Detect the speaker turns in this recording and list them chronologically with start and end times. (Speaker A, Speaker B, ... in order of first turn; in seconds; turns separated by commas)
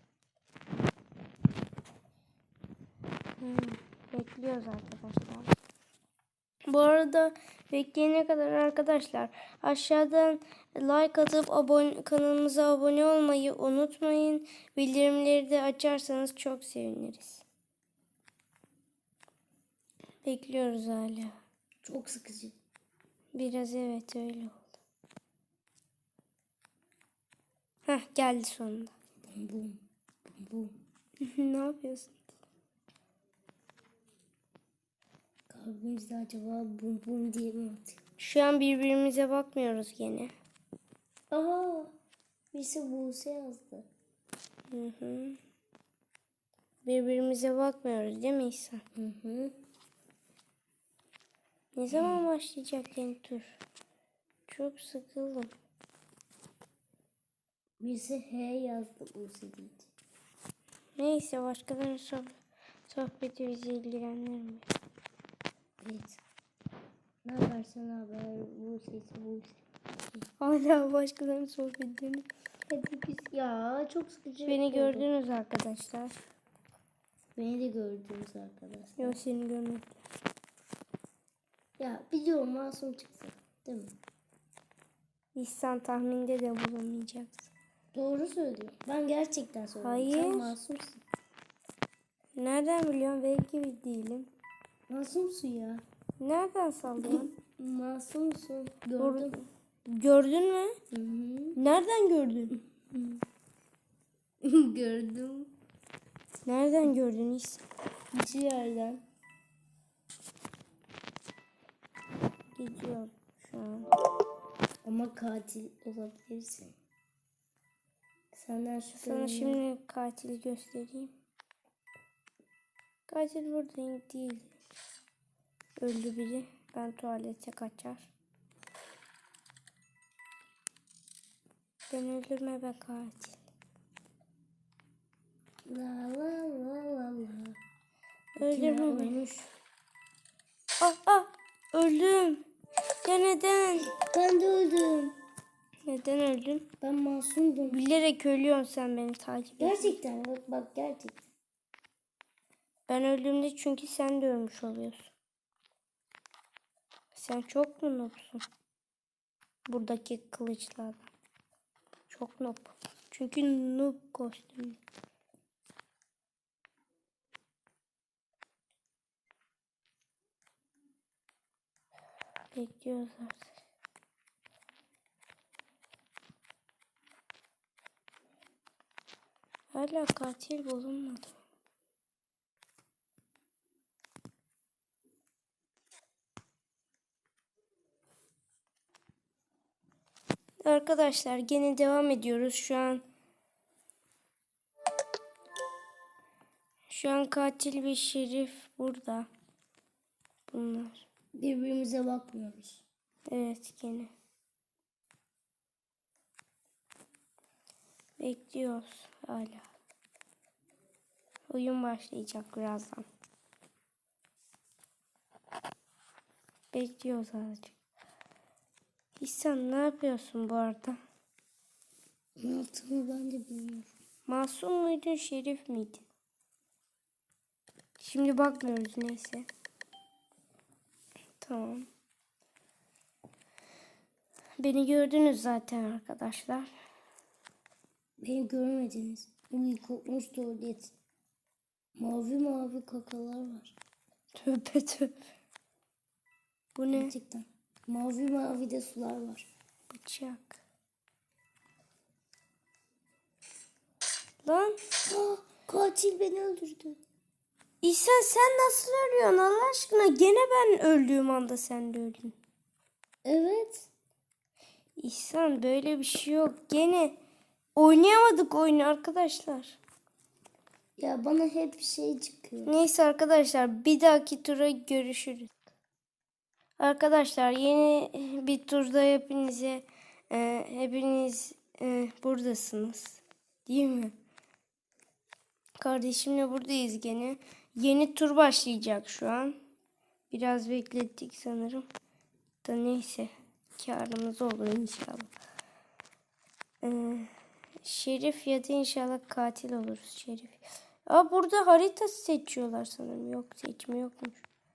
Speaker A: 3.4-5.5, Speaker A: 6.7-17.4, Speaker A: 20.2-21.3, Speaker B: 21.8-22.5, Speaker A: 23.3-24.6, Speaker A: 27.9-28.9, Speaker B: 29.3-30.7, Speaker A: 31.2-32.3, Speaker B: 35.5-38.0, Speaker A: 38.2-40.3, Speaker B: 41.3-41.9, Speaker B: 42.5-43.9, Speaker A: 44.7-45.4, Speaker A: 46.8-48.8, Speaker B: 48.9-49.5, Speaker A: 51.7-53.5, Speaker A: 54.5-55.5, Speaker B: 57.8-59.9, Speaker A: 61.0-62.3, Speaker A: 62.9-64.6, Speaker B: 65.8-66.2, Speaker B: 67.2-69.6, Speaker A: 70.4-72.3, Speaker B: 72.7-75.1, Speaker A: 74.4-76.2, Speaker B: 77.3-79.2, Speaker A: 79.0-79.9, Speaker B: 81.8-83.9, Speaker A: 85.3-87.5, Speaker B: 87.9-91.0, Speaker A: 89.8-90.5, Speaker A: 92.3-94.3, Speaker B: 94.9-95.8, Speaker A: 96.2-97.3, Speaker B: 97.0-99.3, Speaker A: 99.0-100.8, Speaker B: 100.9-101.6, Speaker A: 101.5-102.5, Speaker B: 102.9-103.2, Speaker B: 104.4-105.5, Speaker A: 106.4-107.6, Speaker B: 108.1-109.0, Speaker A: 112.6-113.9, Speaker B: 114.8-116.7, Speaker B: 118.3-119.6, Speaker A: 119.0-121.1, Speaker A: 123.1-124.5, Speaker A: 125.8-128.1, Speaker A: 131.9-133.4, Speaker B: 135.7-137.6, Speaker A: 138.4-139.2, Speaker B: 138.4-139.5, Speaker A: 140.8-142.4, Speaker A: 143.0-143.9, Speaker B: 143.9-145.2, Speaker A: 145.9-146.7, Speaker B: 146.8-147.8, Speaker A: 147.7-150.0, Speaker B: 149.6-151.2, Speaker A: 152.9-155.1, Speaker A: 157.1-158.4, Speaker A: 159.7-161.1, Speaker A: 162.1-164.8, Speaker A: 172.5-173.5, Speaker A: 179.7-181.4, Speaker A: 190.6-193.0, Speaker A: 196.9-199.3, Speaker A: 200.5-201.1, Speaker B: 201.3-202.8, Speaker A: 203.3-204.1, Speaker A: 208.2-209.7, Speaker A: 211.5-213.0, Speaker A: 216.7-217.8, Speaker A: 219.2-221.0, Speaker B: 222.4-223.9, Speaker A: 224.3-226.0, Speaker A: 228.0-229.5, Speaker A: 231.4-231.8, Speaker A: 234.6-236.7, Speaker B: 238.2-240.9, Speaker B: 242.0-243.7, Speaker A: 244.3-245.1, Speaker A: 246.8-247.1, Speaker B: 246.9-249.5, Speaker A: 249.9-250.6, Speaker A: 254.4-254.8, Speaker B: 255.1-257.0, Speaker A: 257.8-262.3, Speaker B: 263.2-263.9, Speaker A: 265.0-267.1, Speaker A: 267.8-269.8, Speaker B: 271.0-272.7, Speaker A: 272.6-275.5, Speaker A: 276.8-284.1, Speaker A: 285.8-289.6, Speaker A: 290.3-291.9, Speaker A: 292.6-295.3, Speaker A: 296.8-297.3, Speaker A: 297.8-304.4